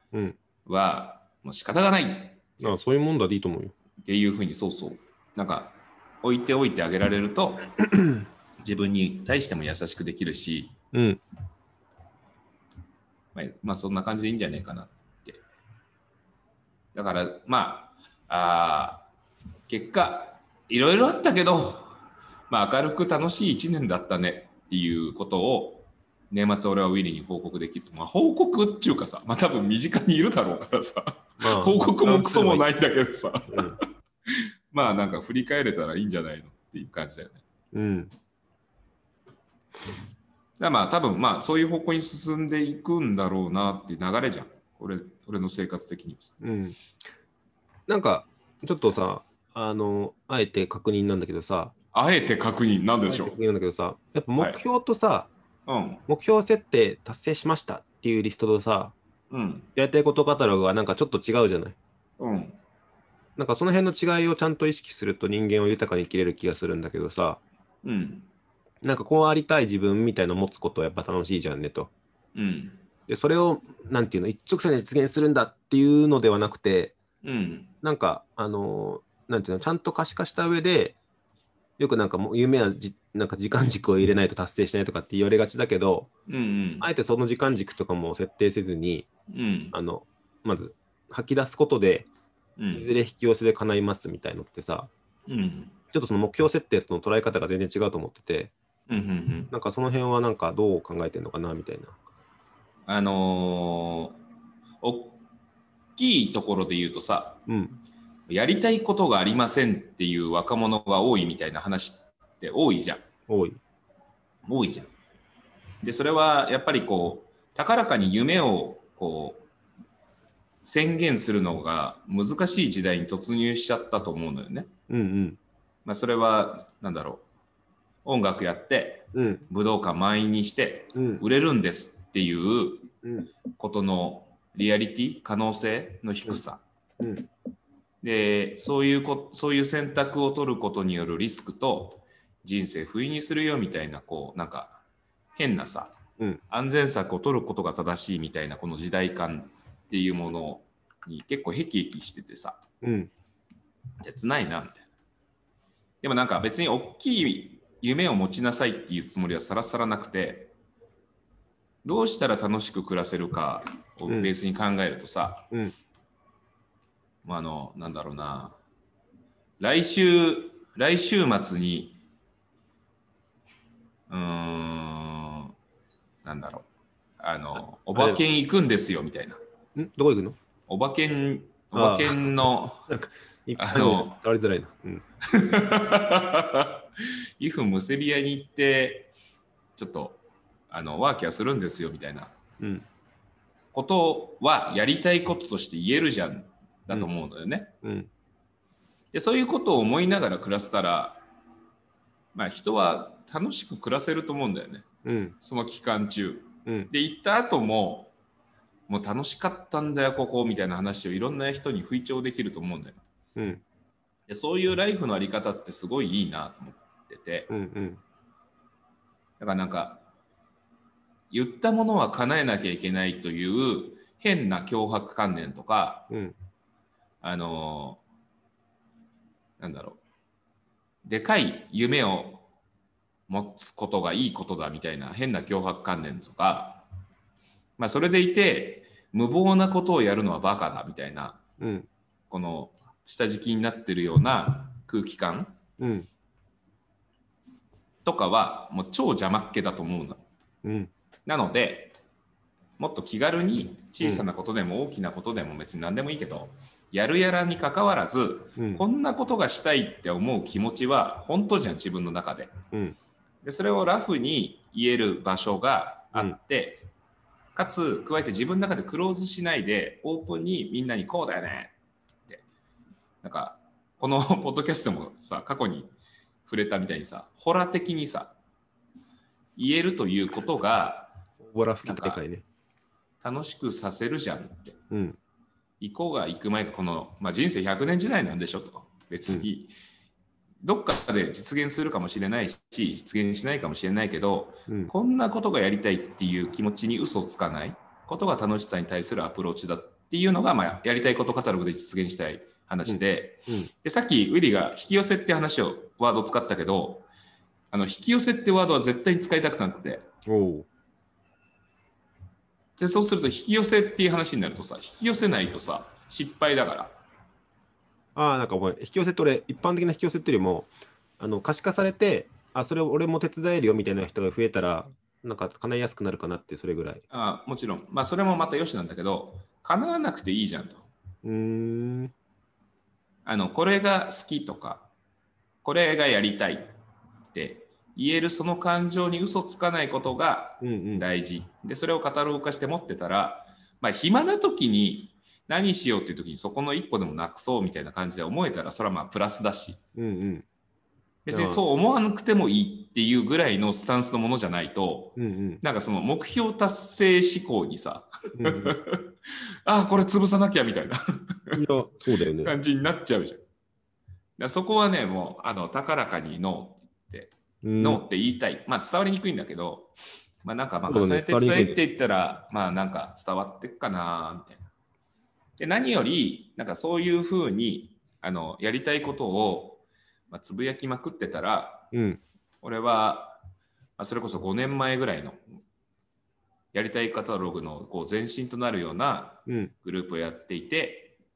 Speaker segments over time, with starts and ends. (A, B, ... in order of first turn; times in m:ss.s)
0:00.1-0:00.4 A
0:00.6-0:02.6 B
0:02.6-0:03.7 A
0:04.0-0:07.7 B
0:08.6-0:10.8 B
0:10.9-0:11.2 A
0:13.4-0:15.4 B
0:16.9-0:19.1 B
0:19.7-0:21.9 B
0:22.5-0:33.8 B
0:31.4-0:32.7 A
0:33.5-0:33.8 A
0:34.7-0:37.4 B
0:37.7-0:38.1 A
0:40.6-0:46.4 B
0:46.4-0:46.8 A
0:47.9-0:51.7 A
0:51.9-0:53.4 B
0:53.1-0:55.3 A
0:55.7-0:56.0 B
0:56.1-0:58.9 A
0:59.3-0:59.7 B
0:59.8-1:01.8 A
1:02.2-1:02.6 B
1:03.4-1:07.4 A
1:07.8-1:08.3 B
1:08.8-1:11.9 A
1:12.4-1:12.8 B
1:13.1-1:17.0 A
1:17.2-1:17.7 B
1:17.8-1:21.0 A
1:21.8-1:26.1 A
1:26.3-1:26.9 B
1:26.8-1:29.1 A
1:29.3-1:29.8 B
1:29.7-1:32.1 A
1:32.6-1:32.9 B
1:32.7-1:34.9 A
1:35.3-1:35.8 B
1:35.9-1:38.5 A
1:38.9-1:39.5 B
1:39.5-1:42.0 A
1:42.9-1:44.2 B
1:44.8-1:45.2 B
1:46.0-1:47.4 B
1:47.5-1:47.8 A
1:48.3-1:53.0 B
1:53.3-1:53.6 A
1:54.5-1:54.9 B
1:55.8-1:59.5 B
2:00.6-2:04.7 B
2:04.9-2:05.4 A
2:05.8-2:07.2 B
2:08.0-2:12.9 B
2:09.1-2:09.4 A
2:10.9-2:11.2 A
2:13.0-2:13.3 A
2:13.6-2:16.6 B
2:17.0-2:17.3 A
2:18.0-2:24.8 B
2:25.4-2:26.0 B
2:26.5-2:32.6 B
2:32.8-2:33.1 A
2:34.0-2:34.9 B
2:36.0-2:40.5 B
2:41.8-2:45.5 B
2:47.2-2:48.6 B
2:49.6-2:52.0 B
2:54.1-2:55.5 B
2:56.2-2:56.7 B
2:57.2-2:59.4 B
2:58.0-2:58.2 A
2:59.8-3:00.4 A
3:00.7-3:02.9 B
3:01.7-3:02.3 A
3:02.9-3:05.0 A
3:03.6-3:04.2 B
3:05.3-3:06.9 B
3:07.4-3:09.1 B
3:09.8-3:12.4 B
3:12.6-3:12.9 A
3:13.7-3:17.7 B
3:17.8-3:18.1 A
3:19.1-3:21.2 B
3:22.3-3:24.9 B
3:25.0-3:25.4 A
3:25.4-3:28.1 B
3:28.9-3:33.0 B
3:33.4-3:33.6 A
3:34.3-3:37.5 B
3:37.5-3:38.0 A
3:39.4-3:40.0 B
3:41.3-3:46.1 B
3:46.1-3:46.4 A
3:47.2-3:48.0 B
3:49.6-3:50.0 B
3:51.0-3:52.4 B
3:53.3-3:56.8 B
3:57.8-4:01.4 B
4:01.6-4:01.9 A
4:02.3-4:05.6 B
4:05.8-4:06.1 A
4:08.0-4:10.2 B
4:10.6-4:10.9 A
4:11.3-4:11.9 B
4:12.8-4:22.5 B
4:18.6-4:18.8 A
4:23.4-4:26.8 B
4:27.6-4:31.8 B
4:33.2-4:35.9 B
4:36.5-4:38.4 B
4:39.6-4:41.2 B
4:41.4-4:42.4 A
4:41.8-4:42.2 B
4:43.2-4:44.8 B
4:44.9-4:45.2 A
4:45.8-4:49.7 B
4:50.6-5:07.1 B
5:02.9-5:03.7 A
5:07.7-5:10.1 B
5:10.3-5:10.7 A
5:12.8-5:17.0 B
5:18.2-5:27.0 A
5:27.1-5:30.9 B
5:31.2-5:32.1 A
5:33.3-5:34.9 B
5:35.6-5:36.7 B
5:37.3-5:49.8 B
5:40.6-5:41.1 A
5:50.0-5:50.4 A
5:51.2-5:59.1 B
5:51.3-5:51.6 A
5:55.2-5:55.6 A
5:58.4-5:58.8 A
5:59.7-6:01.6 B
6:01.6-6:02.5 A
6:02.4-6:03.4 B
6:04.4-6:09.9 B
6:07.6-6:08.0 A
6:10.4-6:14.6 B
6:10.9-6:11.8 A
6:15.6-6:21.9 B
6:21.9-6:22.2 A
6:22.6-6:23.4 B
6:24.0-6:25.4 B
6:26.7-6:31.1 B
6:29.5-6:29.7 A